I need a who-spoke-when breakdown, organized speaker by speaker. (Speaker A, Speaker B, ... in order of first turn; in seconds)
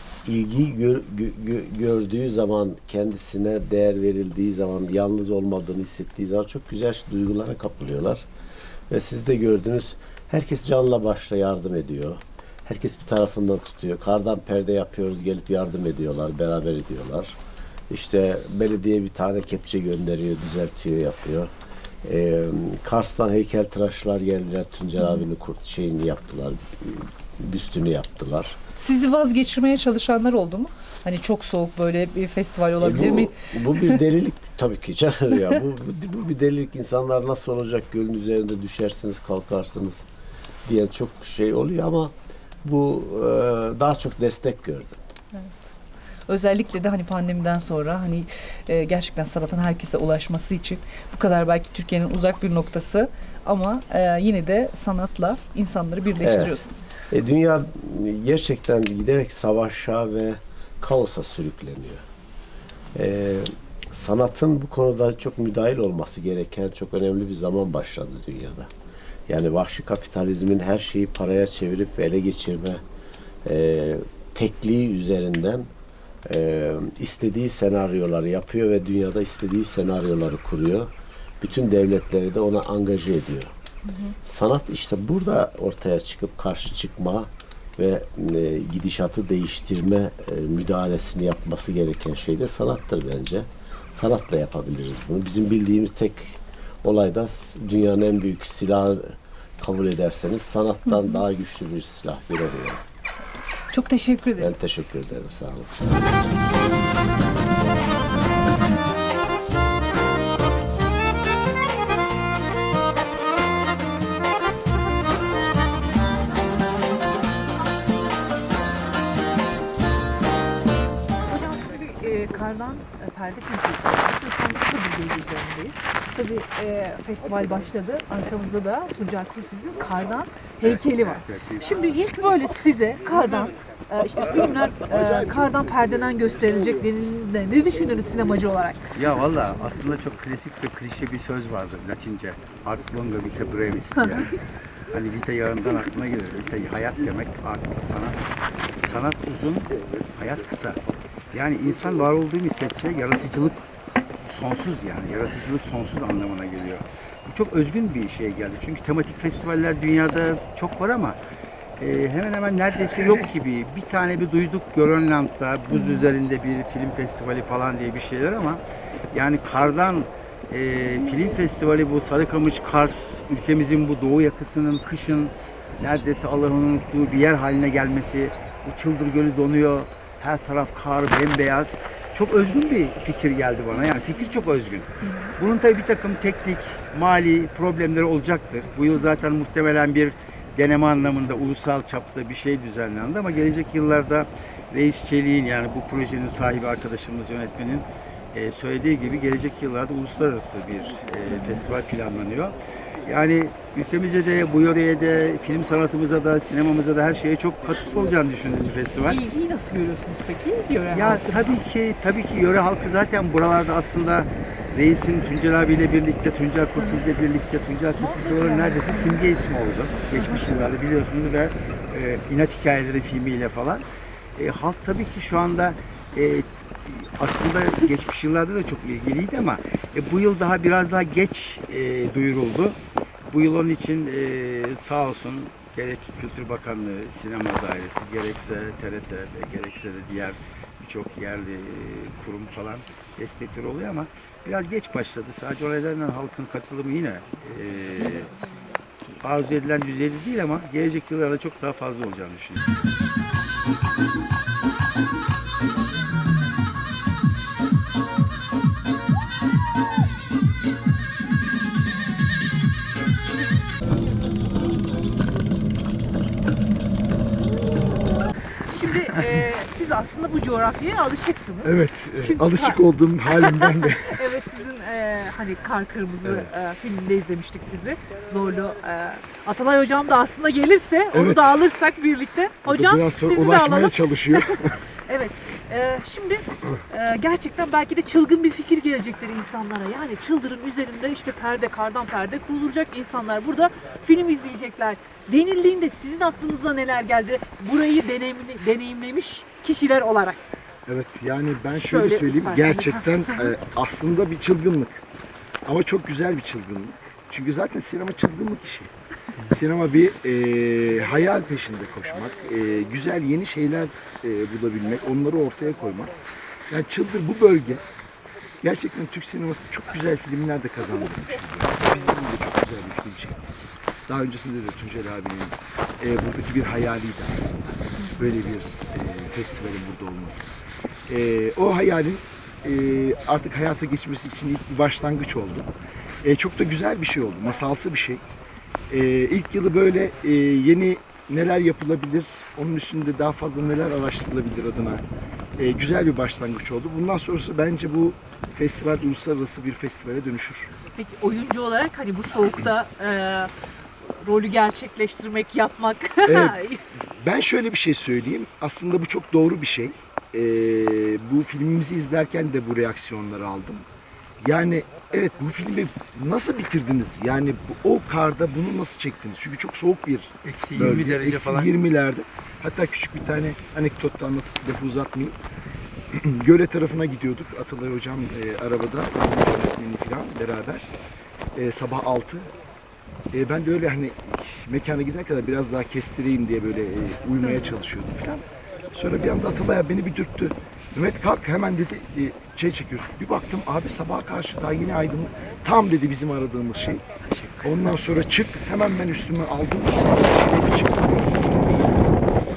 Speaker A: 0.2-8.2, 8.9-17.4, 17.9-21.5, 22.0-28.6, 32.8-40.0, 40.6-45.0, 56.2-56.5, 57.1-62.0, 62.9-68.7, 69.3-72.8, 73.4-75.7, 76.2-83.5, 84.2-102.8, 104.4-106.7
Speaker B: 28.8-34.0, 46.3-56.9, 83.9-84.1, 103.7-104.5, 165.7-166.1
Speaker C: 121.3-138.8, 144.0-144.3, 185.0-185.3, 201.3-201.6, 209.1-211.6, 216.8-217.1, 218.0-219.2, 220.0-220.7, 268.7-300.4, 301.7-303.5, 328.0-328.3, 350.9-353.5, 354.2-356.8
Speaker D: 130.6-131.7, 138.9-144.3, 144.9-148.2, 148.8-150.8, 151.3-153.6, 154.2-161.2, 161.8-168.6, 169.1-209.2, 210.9-223.8, 224.4-232.8, 233.3-248.3, 249.2-252.7, 370.4-371.7
Speaker E: 271.6-274.2, 276.2-276.5, 281.1-281.6, 282.6-284.8, 300.9-305.0, 305.6-308.9, 309.5-316.1, 316.7-317.9, 318.6-323.5, 324.1-330.5, 331.1-335.7, 336.2-338.2, 338.9-345.0, 345.6-350.7, 356.2-356.6, 357.2-363.9, 364.4-375.4, 376.1-380.9, 381.5-382.5, 383.3-397.1, 397.6-401.9